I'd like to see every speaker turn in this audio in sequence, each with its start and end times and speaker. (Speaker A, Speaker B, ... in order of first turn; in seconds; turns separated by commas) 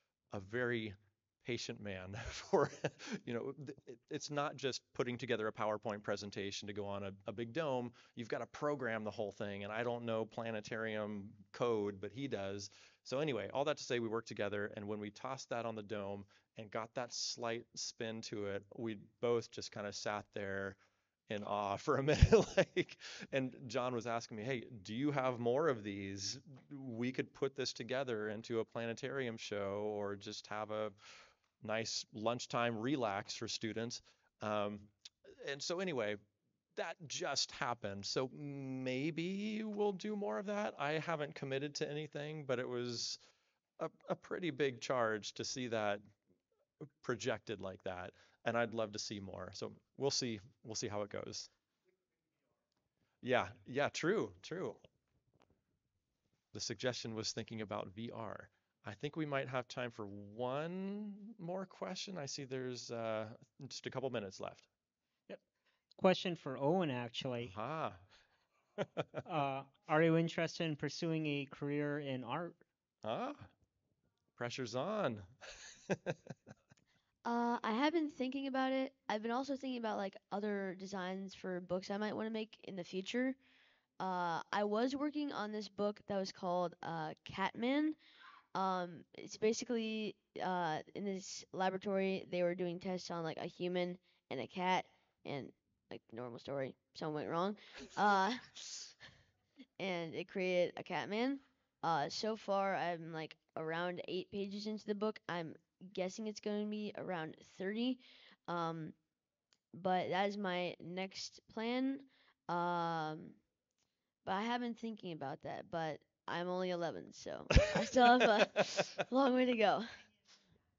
Speaker A: 0.3-20.8, Speaker A: 21.3-36.2, Speaker A: 36.8-43.2, Speaker A: 43.8-46.0, Speaker A: 47.0-51.5, Speaker A: 53.2-54.8, Speaker A: 56.5-64.7, Speaker B: 66.0-67.5, Speaker A: 67.4-68.0, Speaker A: 68.8-69.1, Speaker B: 69.2-72.6, Speaker A: 73.0-73.5, Speaker A: 74.4-76.2, Speaker C: 77.2-83.4, Speaker C: 84.0-88.0, Speaker C: 88.5-98.9, Speaker C: 99.8-108.9, Speaker C: 109.7-113.4, Speaker C: 114.2-120.0